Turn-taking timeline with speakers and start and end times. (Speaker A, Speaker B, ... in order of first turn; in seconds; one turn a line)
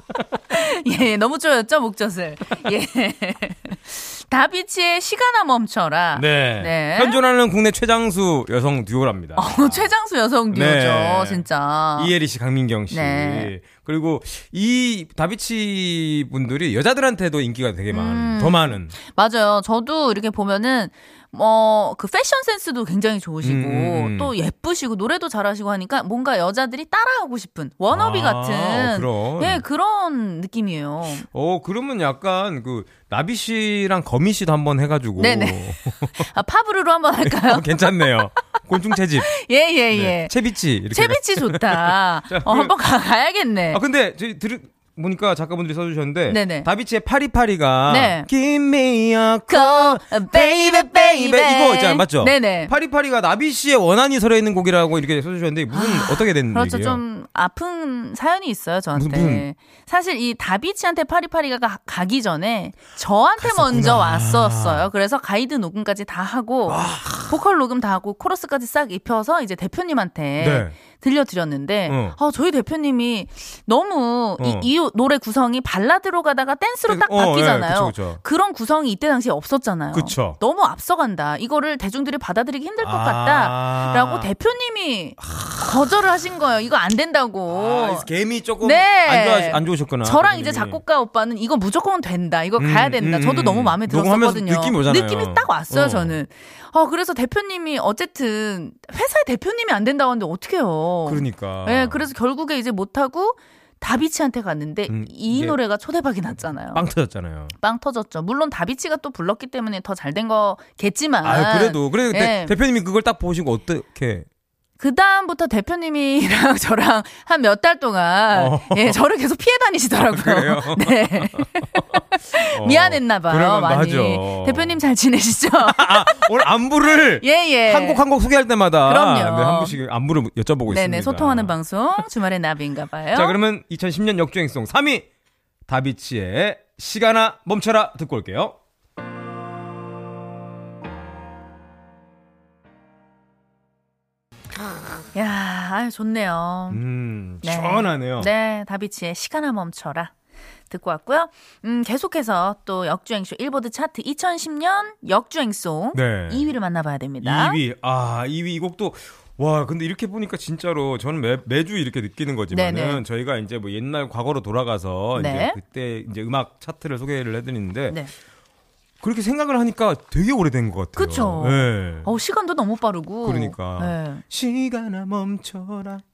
Speaker A: 0.5-7.2
Speaker B: 6.1-9.9
Speaker A: 9.4-12.1
Speaker B: 10.5-18.9
Speaker A: 12.9-13.5
Speaker A: 17.9-31.2
Speaker B: 23.4-24.3
Speaker B: 27.9-29.6
Speaker B: 31.2-36.3
Speaker A: 35.2-37.8
Speaker B: 37.2-39.3
Speaker A: 39.2-40.3
Speaker B: 39.9-42.7
Speaker A: 40.9-43.8
Speaker B: 43.7-57.0
Speaker A: 46.3-46.7
Speaker A: 47.9-48.3
Speaker A: 49.5-52.7
Speaker A: 55.7-88.1
Speaker B: 59.0-59.5
Speaker B: 63.4-64.9
Speaker B: 66.7-67.4
Speaker B: 70.4-70.8
Speaker B: 71.9-72.2
Speaker B: 74.4-74.7
Speaker B: 76.9-78.2
Speaker B: 79.9-80.4
Speaker B: 82.8-84.3
Speaker B: 85.2-85.8
Speaker B: 87.5-90.8
Speaker A: 88.6-106.8
Speaker B: 92.6-96.2
Speaker B: 101.0-102.1
Speaker B: 104.9-105.6
Speaker B: 106.7-107.5
Speaker A: 107.6-112.6
Speaker B: 111.2-114.3
Speaker A: 114.8-121.7
Speaker B: 118.3-119.0
Speaker B: 120.0-122.0
Speaker A: 122.2-126.3
Speaker B: 122.5-124.8
Speaker B: 125.6-131.6
Speaker A: 127.2-128.0
Speaker A: 128.9-129.8
Speaker A: 130.7-133.4
Speaker B: 133.1-135.1
Speaker B: 135.7-138.6
Speaker A: 145.1-146.8
Speaker B: 146.7-148.3
Speaker A: 147.4-150.1
Speaker A: 150.7-157.6
Speaker B: 155.9-156.5
Speaker B: 157.2-168.0
Speaker A: 162.5-163.0
Speaker A: 165.2-165.6
Speaker B: 169.0-172.1
Speaker A: 171.0-174.2
Speaker B: 173.2-176.0